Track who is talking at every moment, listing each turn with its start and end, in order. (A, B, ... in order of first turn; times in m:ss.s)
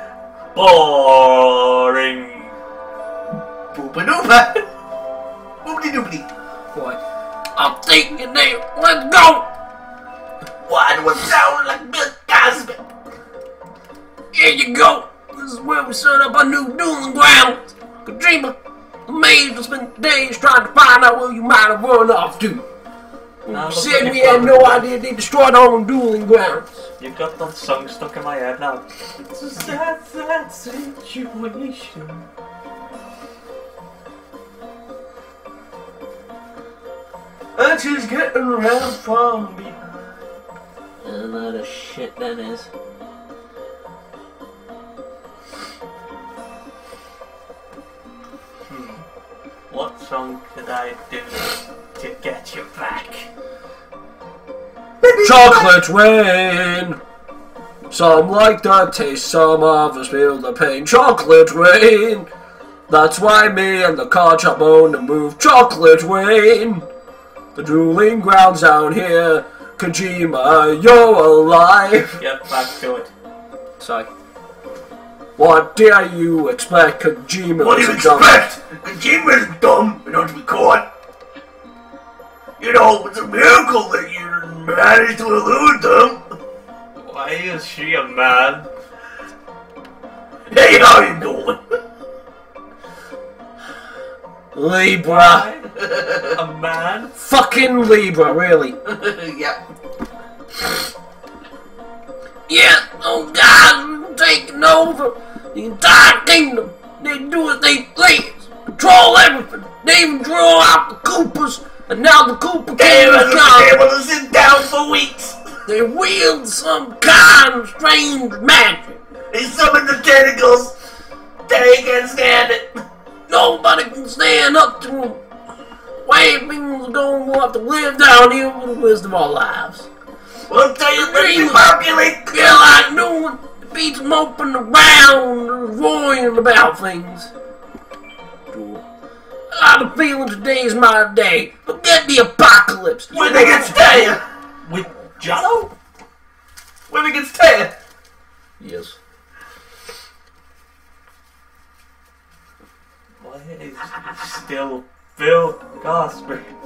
0:00.5-0:02.6 A
0:03.7-0:04.7 B
0:05.6-0:06.3 B
0:06.7-0:07.0 C
0:07.6-0:09.5 C
0:10.7-0:12.8 B
0:14.3-0:22.7 C
0:23.4-0:26.8 C
0:23.5-0:24.8 A
0:27.0-0:32.2 A
0:37.6-0:40.1 B
0:41.0-0:42.7 C
0:48.7-0:49.0 A
0:49.7-0:53.3 A
0:55.0-0:55.8 B
0:55.2-0:57.0 C
0:57.9-1:02.3 C
1:02.9-1:06.9 C
1:07.6-1:12.2 C
1:12.2-1:13.1 A
1:13.8-1:14.1 C
1:15.4-1:18.5 C
1:17.6-1:20.9 B
1:22.6-1:26.2 B
1:27.0-1:28.7 A
1:30.5-1:31.6 B
1:34.5-1:35.5 C
1:35.0-1:37.2 A
1:35.8-1:36.4 B
1:37.2-1:38.8 C
1:38.8-1:39.6 B
1:42.5-1:53.8 C
1:52.8-1:55.5 B
1:55.7-1:59.0 C
1:59.3-2:00.8 B
2:01.5-2:02.8 B
2:03.3-2:05.2 C
2:06.0-2:09.9 C
2:10.5-2:12.5 B
2:10.9-2:17.3 C
2:18.5-2:18.8 C
2:19.5-2:24.1 C
2:23.1-2:24.2 B
2:23.2-2:25.7 A
2:26.9-2:27.8 B
2:28.6-2:29.0 C
2:33.2-2:36.5 A